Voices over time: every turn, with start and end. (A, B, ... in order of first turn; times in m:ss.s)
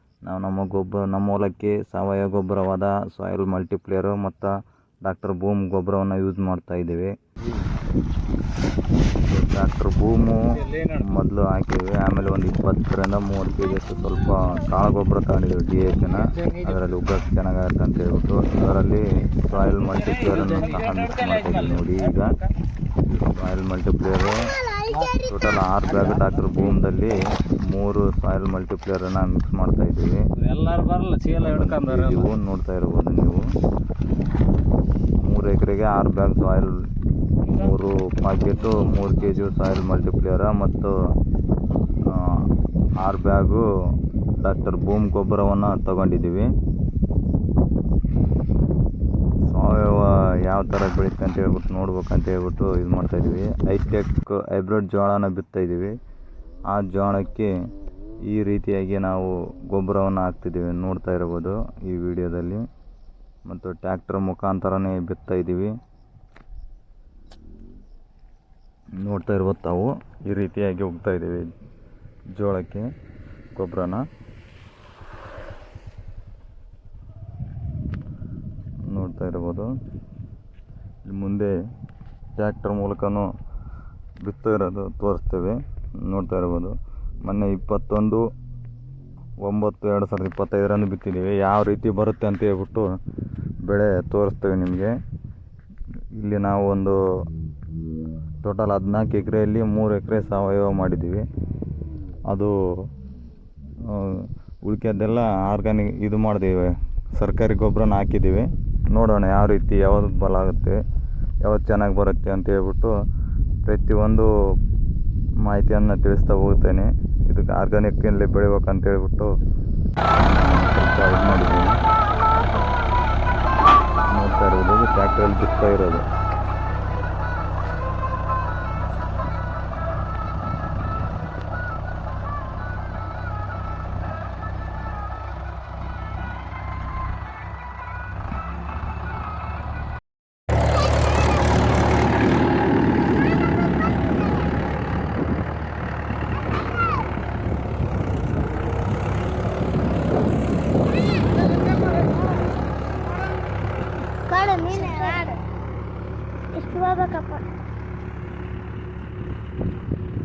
0:00.2-0:04.5 A
0:05.0-0:07.1 A
0:09.2-0:22.4 A
0:10.6-0:11.1 B
0:15.9-0:17.0 B
0:19.6-0:22.5 B
0:23.1-0:24.6 A
0:24.9-0:25.2 B
0:25.2-0:30.2 A
0:25.8-0:26.8 B
0:30.4-0:32.3 B
0:31.4-0:33.4 A
0:35.2-0:36.8 A
0:37.5-0:37.8 B
0:37.5-0:40.9 A
0:38.6-0:39.1 B
0:42.0-0:42.4 A
0:43.0-0:43.6 A
0:44.4-0:46.5 A
0:49.4-0:55.9 A
0:56.7-0:57.5 A
0:58.3-1:02.6 A
1:03.5-1:05.7 A
1:09.0-1:11.5 A
1:12.4-1:12.8 A
1:13.6-1:14.0 A
1:18.9-1:19.7 A
1:21.0-1:21.5 A
1:22.4-1:23.2 A
1:24.2-1:28.2 A
1:29.4-1:32.8 A
1:33.6-1:34.9 A
1:36.2-1:37.0 A
1:38.4-1:41.2 A
1:43.9-1:50.8 A
1:51.4-1:52.9 A
1:53.6-1:54.3 A
1:55.4-1:59.3 A
2:00.2-2:01.8 A
2:04.1-2:06.0 A
2:31.7-2:31.9 C
2:34.2-2:35.4 C
2:36.5-2:37.5 C